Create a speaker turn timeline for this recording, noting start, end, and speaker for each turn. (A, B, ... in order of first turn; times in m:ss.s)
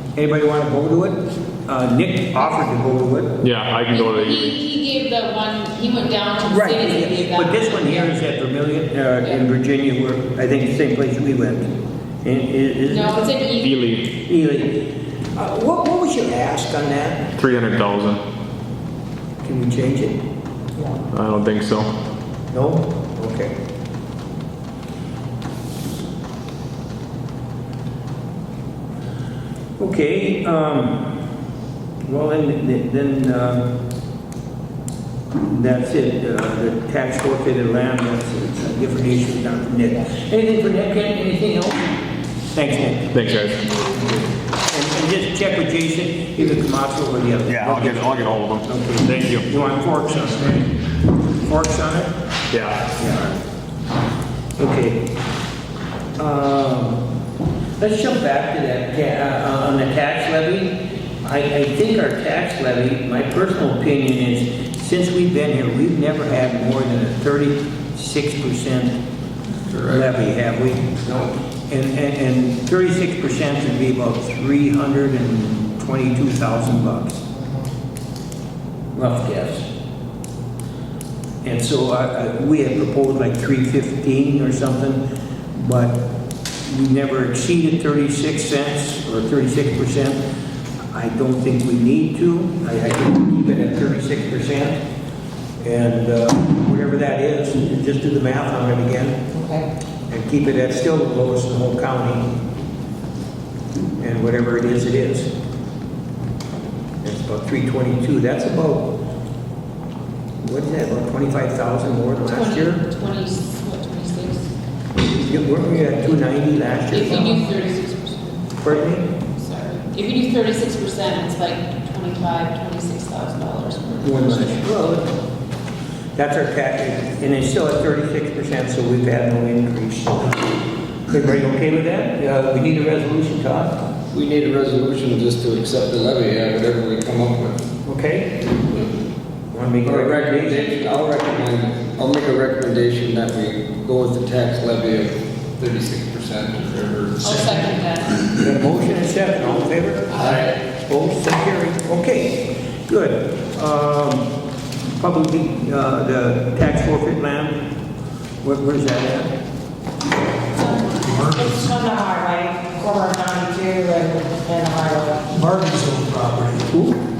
0:00.2-0:03.4 A
0:03.4-0:04.6 B
0:03.9-0:08.1 C
0:06.4-0:11.7 A
0:12.2-0:13.4 A
0:12.9-0:13.8 C
0:13.6-0:14.1 B
0:14.2-0:14.8 A
0:15.4-0:17.3 A
0:17.4-0:18.2 B
0:19.4-0:20.2 A
0:21.1-0:21.9 B
0:22.5-0:23.5 A
0:29.8-0:31.1 A
0:32.0-0:33.7 A
0:35.4-0:41.9 A
0:42.5-0:43.1 A
0:43.1-0:43.7 B
0:43.8-0:52.1 A
0:47.5-0:49.4 B
0:52.5-0:52.9 B
0:53.0-0:53.4 A
0:54.6-0:55.1 A
0:56.2-0:57.0 A
0:57.8-1:09.0 A
1:09.7-1:10.0 D
1:09.9-1:17.2 A
1:19.0-1:19.7 A
1:21.4-1:25.0 A
1:25.6-1:26.0 A
1:26.7-1:30.2 A
1:30.9-1:34.8 A
1:35.6-1:39.2 A
1:39.3-1:39.7 E
1:40.1-1:42.3 A
1:44.0-1:45.3 A
1:47.0-1:48.9 A
1:50.4-1:52.8 A
1:52.3-1:54.5 C
1:55.1-1:57.4 A
1:56.9-1:58.5 C
1:58.6-1:59.1 A
1:59.2-2:04.6 C
2:04.0-2:05.1 A
2:06.2-2:13.8 A
2:14.1-2:17.7 D
2:17.8-2:18.5 A
2:19.5-2:20.7 A
2:19.8-2:27.3 D
2:27.2-2:28.3 C
2:27.2-2:27.7 F
2:28.4-2:30.2 A
2:30.1-2:30.4 C
2:30.2-2:30.5 D
2:30.9-2:34.3 A
2:35.0-2:37.6 A
2:38.4-2:39.3 A
2:40.6-2:45.2 E
2:40.6-2:41.7 F
2:45.3-2:46.7 F
2:46.7-2:47.0 A